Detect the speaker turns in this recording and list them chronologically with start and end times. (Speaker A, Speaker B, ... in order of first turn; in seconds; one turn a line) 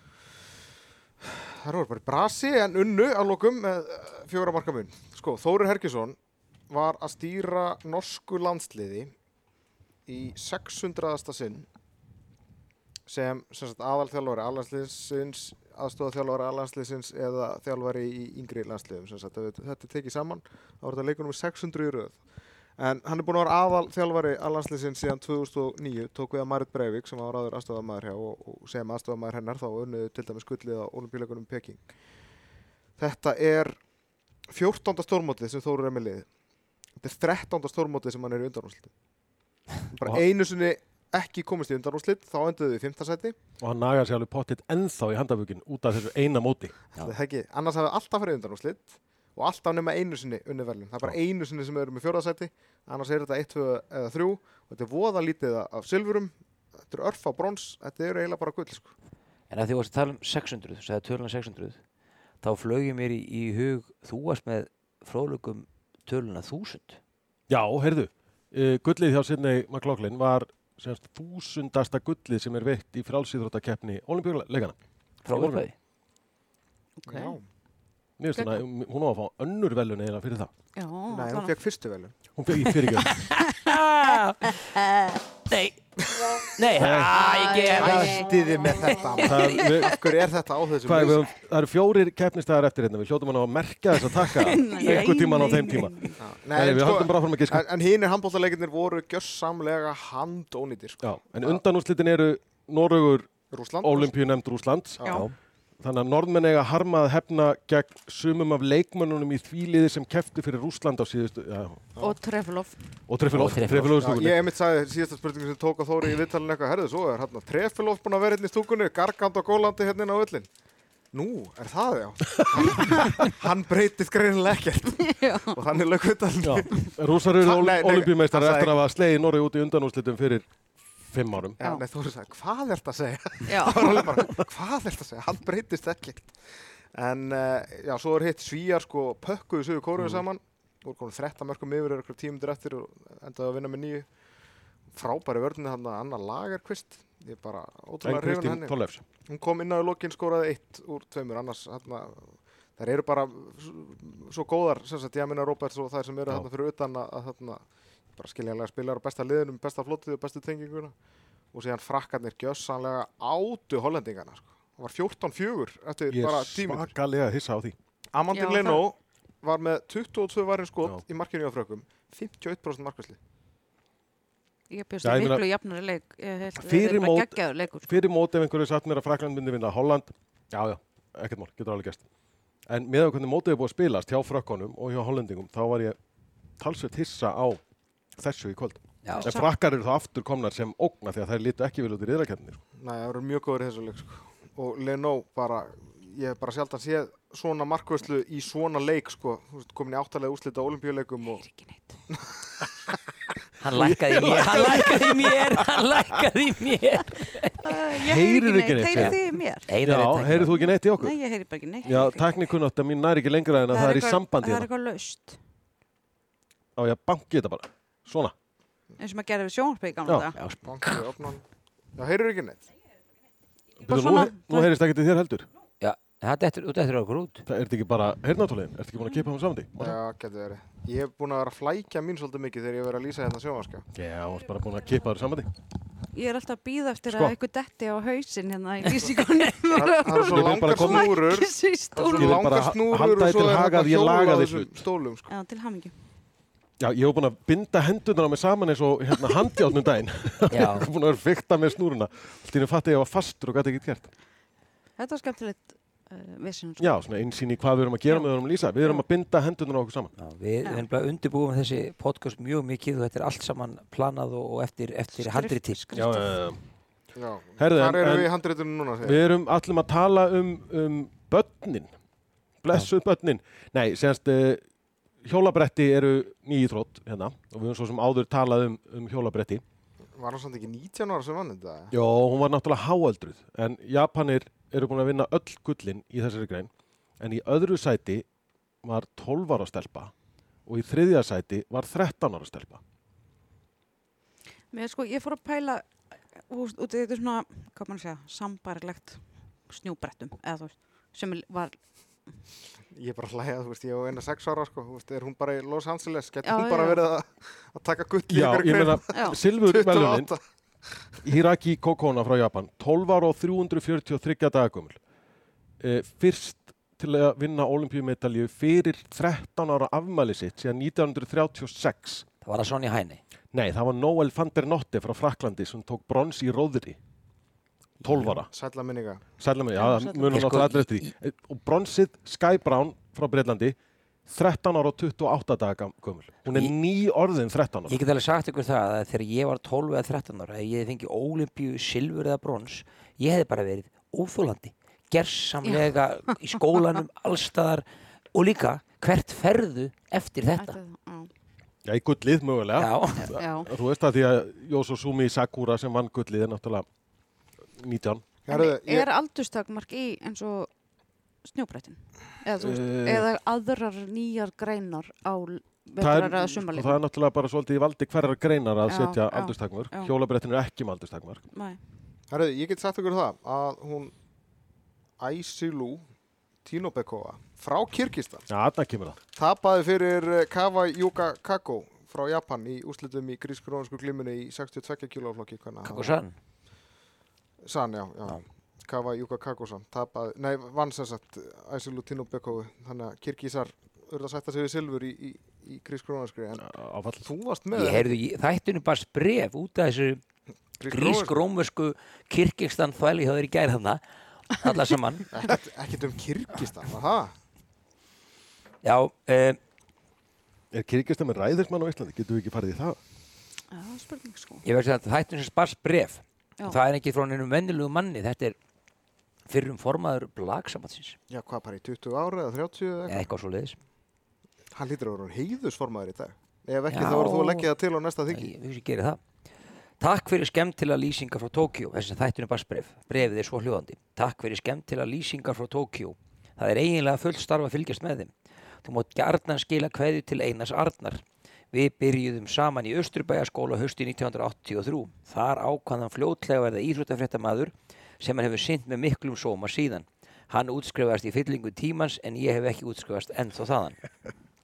Speaker A: 1.2-6.2
Speaker A: 6.7-9.1
Speaker A: 10.1-11.7
Speaker A: 13.1-22.2
Speaker A: 22.8-31.8
Speaker A: 33.0-33.8
Speaker A: 34.5-36.3
Speaker A: 37.0-38.9
Speaker A: 39.9-43.4
Speaker B: 43.6-46.7
Speaker A: 47.0-58.9
Speaker C: 59.5-61.8
Speaker C: 62.4-67.0
Speaker B: 67.5-74.8
Speaker C: 75.2-75.7
Speaker B: 75.3-75.7
Speaker D: 77.0-77.4
Speaker A: 77.1-77.4
Speaker B: 78.2-80.5
Speaker D: 78.3-78.6
Speaker D: 80.8-81.5
Speaker A: 81.1-82.2
Speaker B: 82.4-83.2
Speaker C: 82.6-84.8
Speaker D: 83.5-83.8
Speaker D: 84.4-85.2
Speaker C: 85.5-85.8
Speaker C: 86.5-88.2
Speaker B: 86.8-87.2
Speaker D: 87.1-89.8
Speaker A: 87.8-91.3
Speaker B: 89.2-90.0
Speaker B: 90.8-97.7
Speaker D: 94.2-96.2
Speaker A: 96.2-101.6
Speaker B: 101.0-105.1
Speaker A: 103.5-104.1
Speaker A: 105.0-105.2
Speaker C: 105.1-105.3
Speaker B: 105.8-111.8
Speaker D: 112.0-112.8
Speaker B: 113.1-114.4
Speaker C: 113.3-114.1
Speaker A: 114.0-120.5
Speaker A: 121.1-128.7
Speaker B: 122.5-122.8
Speaker D: 125.0-125.6
Speaker B: 126.4-130.5
Speaker B: 131.1-131.6
Speaker A: 131.6-136.4
Speaker D: 133.5-134.2
Speaker A: 136.9-144.1
Speaker B: 140.0-140.2
Speaker A: 144.9-148.8
Speaker B: 148.0-149.0
Speaker A: 149.3-157.6
Speaker A: 158.2-160.9
Speaker A: 161.5-166.9
Speaker B: 166.1-167.8
Speaker A: 168.1-173.2
Speaker D: 168.3-168.8
Speaker D: 174.7-178.0
Speaker B: 175.0-175.4
Speaker B: 176.6-182.0
Speaker B: 182.7-186.0
Speaker B: 186.6-187.6
Speaker B: 188.2-192.6
Speaker C: 189.0-189.4
Speaker D: 189.1-189.5
Speaker A: 192.8-201.4
Speaker D: 201.4-201.9
Speaker A: 202.1-202.7
Speaker C: 203.6-207.6
Speaker B: 203.8-205.8
Speaker D: 207.6-209.7
Speaker B: 207.9-209.2
Speaker C: 209.7-210.6
Speaker B: 209.8-211.2
Speaker D: 210.5-212.3
Speaker B: 211.8-214.7
Speaker D: 213.7-215.4
Speaker B: 216.8-218.3
Speaker D: 219.0-220.4
Speaker B: 220.1-220.3
Speaker C: 220.3-221.1
Speaker A: 220.6-221.4
Speaker A: 222.0-222.7
Speaker B: 223.8-225.5
Speaker D: 223.8-224.7
Speaker C: 225.8-227.5
Speaker B: 227.5-230.0
Speaker A: 229.8-233.9
Speaker B: 233.9-235.5
Speaker D: 236.1-242.4
Speaker B: 237.1-237.4
Speaker A: 239.7-245.3
Speaker B: 240.1-241.2
Speaker B: 242.0-244.8
Speaker D: 245.3-245.9
Speaker B: 246.8-254.1
Speaker C: 250.5-250.9
Speaker D: 255.0-257.0
Speaker B: 256.8-260.1
Speaker C: 260.2-266.0
Speaker D: 265.2-266.4
Speaker B: 265.9-266.6
Speaker A: 267.1-269.2
Speaker B: 267.6-268.3
Speaker B: 269.0-271.9
Speaker B: 272.6-274.6
Speaker B: 275.2-279.6
Speaker A: 280.1-281.9
Speaker B: 281.9-288.2
Speaker B: 288.8-290.1
Speaker B: 290.7-292.8
Speaker D: 294.7-295.9
Speaker D: 296.5-301.8
Speaker A: 302.9-310.4
Speaker D: 306.4-307.0
Speaker B: 308.3-310.3
Speaker D: 309.1-309.4
Speaker B: 311.2-315.0
Speaker B: 315.8-322.2
Speaker C: 322.4-323.2
Speaker B: 323.5-327.0
Speaker B: 328.0-328.5
Speaker A: 328.4-329.2
Speaker B: 329.4-333.8
Speaker D: 329.8-330.4
Speaker C: 330.3-331.1
Speaker B: 334.3-338.0
Speaker C: 336.5-336.7
Speaker C: 337.9-350.8
Speaker D: 345.6-346.4
Speaker D: 350.6-351.3
Speaker B: 351.9-356.9
Speaker C: 352.8-353.3
Speaker D: 353.2-353.7
Speaker B: 357.8-358.2
Speaker A: 358.5-359.1
Speaker D: 358.5-360.7
Speaker D: 361.4-367.0
Speaker B: 362.6-363.3
Speaker B: 366.0-371.4
Speaker D: 368.9-370.1
Speaker D: 371.5-371.8
Speaker A: 372.3-374.1
Speaker A: 375.2-376.1
Speaker A: 376.6-378.5
Speaker B: 378.5-379.2
Speaker A: 379.4-386.1
Speaker C: 385.8-386.4
Speaker A: 387.6-396.7
Speaker B: 396.6-397.3
Speaker A: 397.2-398.2
Speaker C: 397.7-400.2
Speaker A: 400.8-401.4
Speaker C: 400.9-405.3
Speaker A: 405.3-407.3
Speaker C: 408.8-409.6
Speaker B: 410.7-413.0
Speaker D: 413.7-414.6
Speaker C: 414.6-418.6
Speaker C: 419.5-421.2
Speaker A: 421.3-423.3
Speaker C: 423.1-423.8
Speaker A: 424.7-428.5
Speaker C: 426.9-427.7
Speaker C: 428.3-429.2
Speaker C: 430.0-438.3
Speaker C: 438.8-454.0